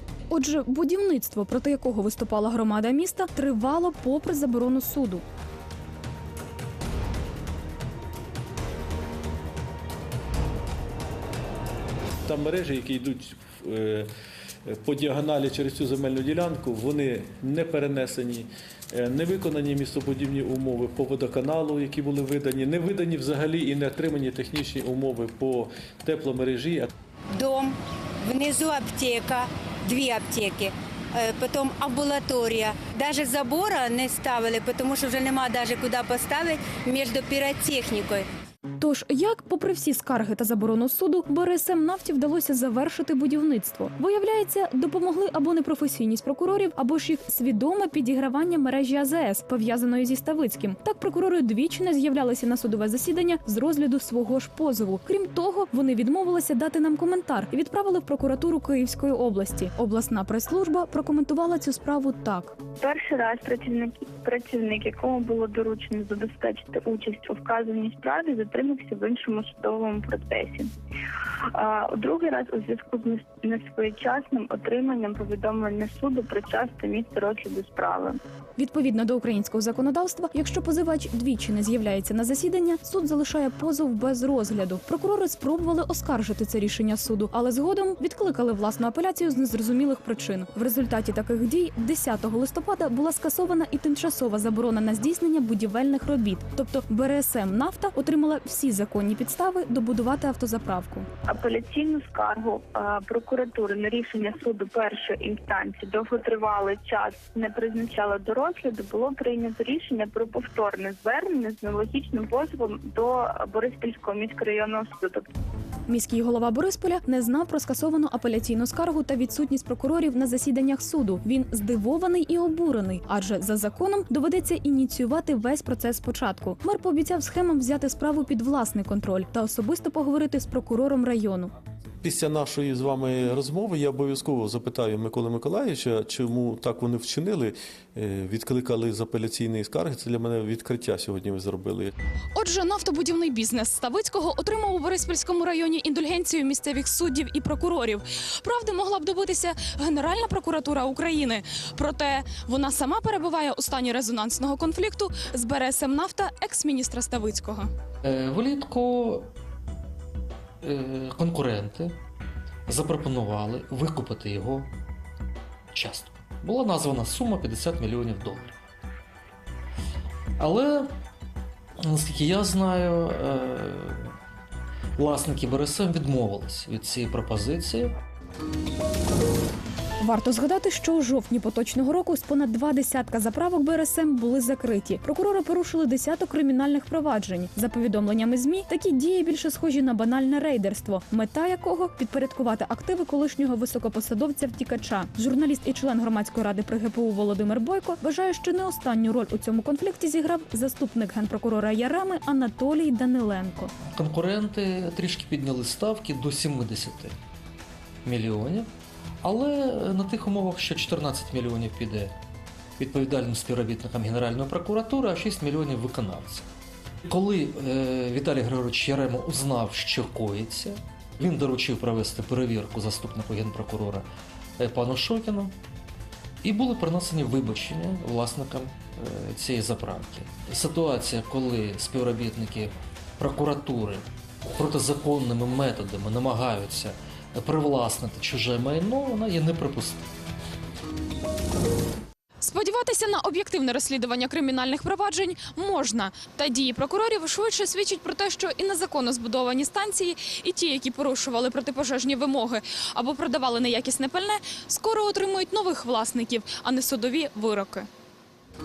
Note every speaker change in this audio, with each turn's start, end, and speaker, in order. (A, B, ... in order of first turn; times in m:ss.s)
0:00.3-0:05.2 A
0:12.2-0:14.1 B
0:14.7-0:26.9 B
0:27.3-0:38.3 C
0:38.8-1:02.6 A
1:02.8-1:10.7 D
1:11.5-1:18.2 D
1:18.6-1:41.1 A
1:41.3-1:55.3 D
1:55.9-2:11.5 A
2:12.0-2:21.9 E
2:22.3-2:37.7 F
2:38.0-2:39.3 G
2:40.6-2:42.0 G
2:42.7-2:44.7 G
2:45.7-2:48.6 G
2:50.4-2:50.9 G
2:51.8-2:54.1 G
2:55.0-2:58.0 G
3:00.0-3:23.7 A
3:23.8-3:27.2 G
3:28.0-3:28.7 G
3:29.2-3:32.2 G
3:32.8-3:36.5 G
3:37.1-3:45.6 G
3:46.4-4:00.0 G
4:02.4-4:17.9 F